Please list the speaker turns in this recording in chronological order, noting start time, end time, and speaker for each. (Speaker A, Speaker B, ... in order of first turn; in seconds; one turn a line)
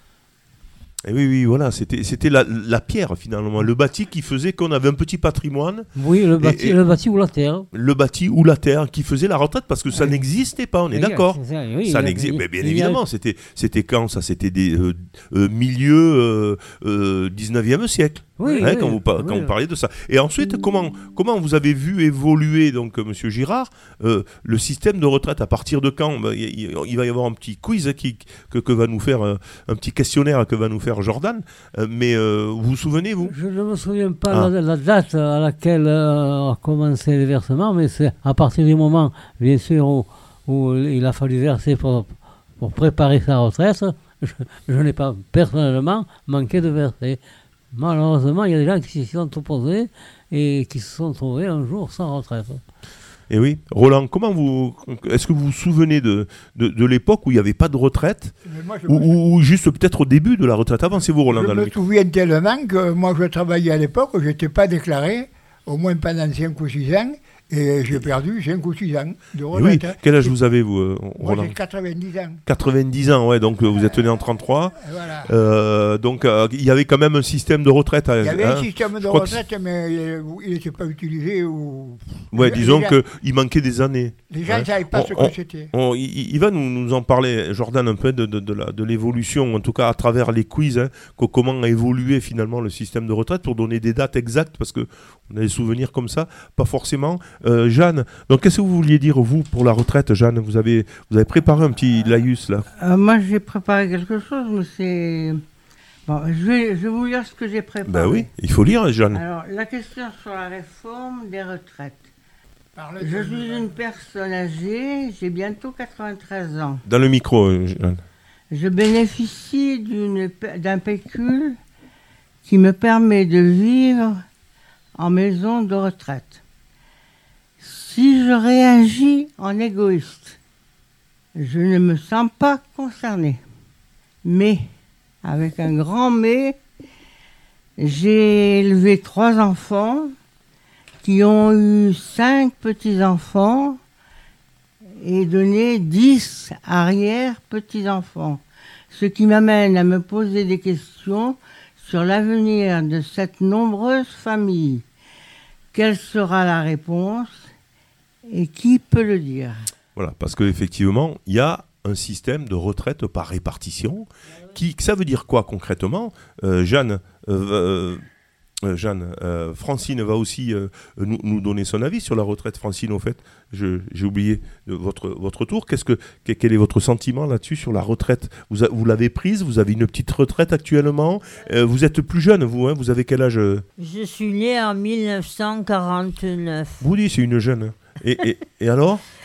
Speaker A: 1.0-6.8
Speaker B: 6.0-7.7
Speaker A: 7.7-33.4
Speaker B: 9.9-10.2
Speaker B: 10.9-13.0
Speaker B: 18.4-19.5
Speaker B: 33.2-47.2
Speaker B: 47.7-52.6
Speaker A: 53.3-61.8
Speaker C: 58.4-59.1
Speaker C: 61.3-70.3
Speaker A: 69.5-71.5
Speaker C: 71.2-72.4
Speaker A: 72.5-79.4
Speaker C: 73.8-74.2
Speaker C: 74.8-75.3
Speaker C: 78.2-83.0
Speaker A: 82.3-102.7
Speaker C: 84.3-85.7
Speaker D: 102.8-105.4
Speaker D: 106.1-108.3
Speaker A: 107.9-109.2
Speaker D: 109.1-112.1
Speaker C: 112.8-113.8
Speaker D: 113.0-116.8
Speaker A: 116.9-118.0
Speaker D: 118.5-121.6
Speaker D: 122.5-124.2
Speaker D: 125.0-126.4
Speaker D: 127.6-130.4
Speaker D: 131.3-133.4
Speaker D: 134.2-134.7
Speaker D: 135.2-136.6
Speaker D: 137.8-140.2
Speaker D: 141.0-143.8
Speaker D: 145.0-154.8
Speaker D: 155.7-157.5
Speaker D: 158.3-159.7
Speaker A: 160.0-168.1
Speaker A: 168.6-183.7
Speaker E: 183.8-186.8
Speaker A: 186.8-189.0